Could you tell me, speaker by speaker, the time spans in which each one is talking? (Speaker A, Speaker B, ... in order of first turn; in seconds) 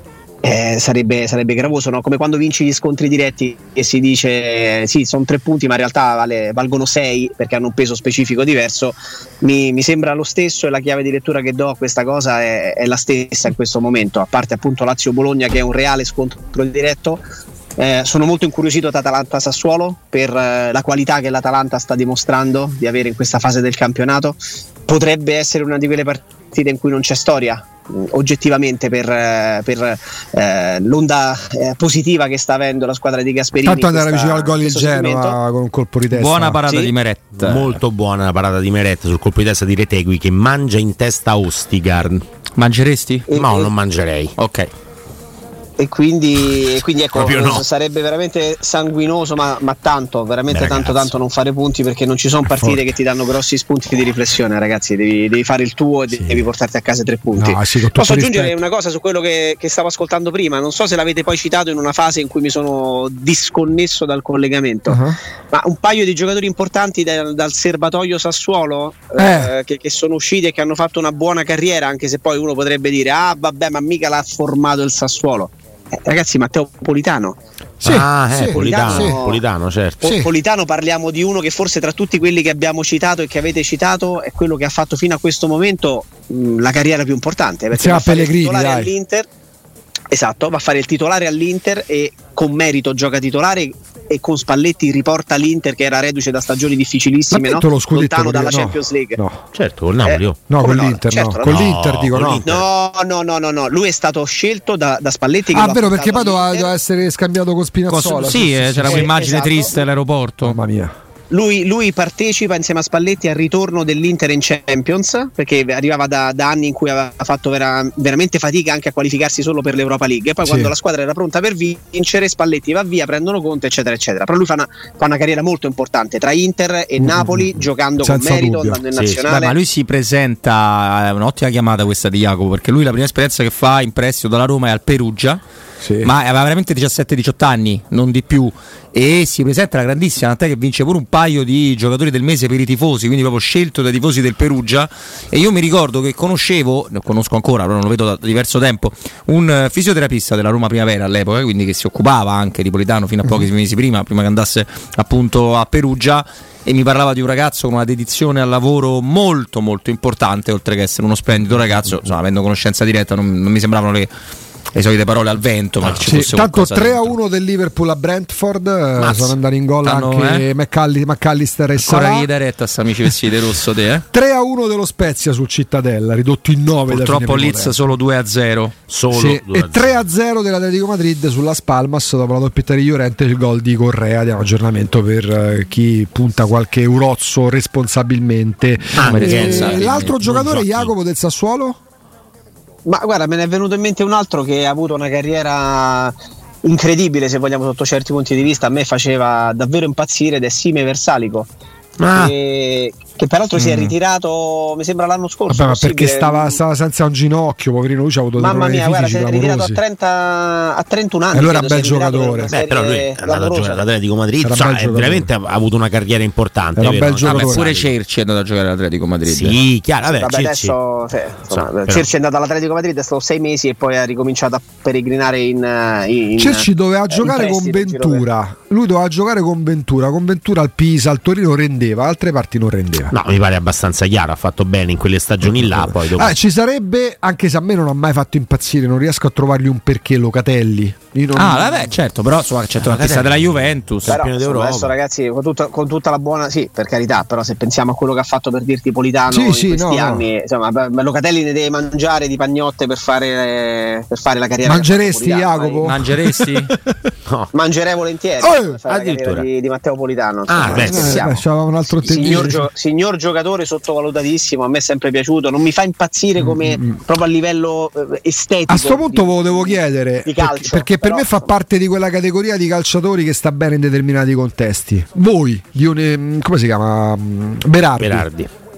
Speaker A: 0.4-17.2, 17.8-35.4, 36.7-36.9, 43.3-43.7, 45.8-65.0, 65.5-77.4, 78.3-79.4, 80.0-89.3, 90.1-99.2, 100.0-101.5, 102.4-106.7, 108.9-109.7, 111.3-129.6, 192.8-201.5, 202.1-206.6, 208.4-213.8, 220.0-228.2, 244.1-255.9, 257.5-271.5
Speaker B: 33.6-36.6, 57.3-58.5, 64.9-65.2, 69.2-69.5, 77.8-79.2, 80.0-80.3, 87.7-88.9, 97.3-99.4, 100.5-102.4, 105.5-109.1, 110.4-110.9, 120.4-120.7, 127.0-128.8, 135.8-136.1, 166.0-172.3, 174.1-177.9, 179.1-191.8, 205.5-209.8, 211.3-212.5, 214.4-215.3, 216.8-217.7, 226.4-233.1, 235.4-241.9, 249.3-250.2, 254.6-257.1, 258.4-258.8, 260.6-262.7, 266.4-267.0, 268.7-278.3
Speaker C: 36.1-37.8, 42.6-43.3, 44.4-44.7, 107.9-110.6, 129.3-135.4, 136.0-164.1, 164.7-167.1, 169.8-170.4, 171.8-174.0, 176.9-178.7, 188.9-190.2, 203.6-203.9, 217.2-219.6, 241.3-244.1, 255.8-256.8
Speaker D: 37.4-42.2, 43.3-44.3, 47.1-47.6, 50.5-51.1, 52.5-52.9, 77.8-80.0, 99.5-100.4, 101.4-102.7, 128.9-129.2, 169.0-169.3, 178.9-180.0, 188.9-190.9, 202.0-202.3, 212.5-217.9, 219.2-220.7, 221.5-222.1, 233.1-236.3, 242.8-244.9, 258.9-259.4, 260.5-261.3, 278.0-278.5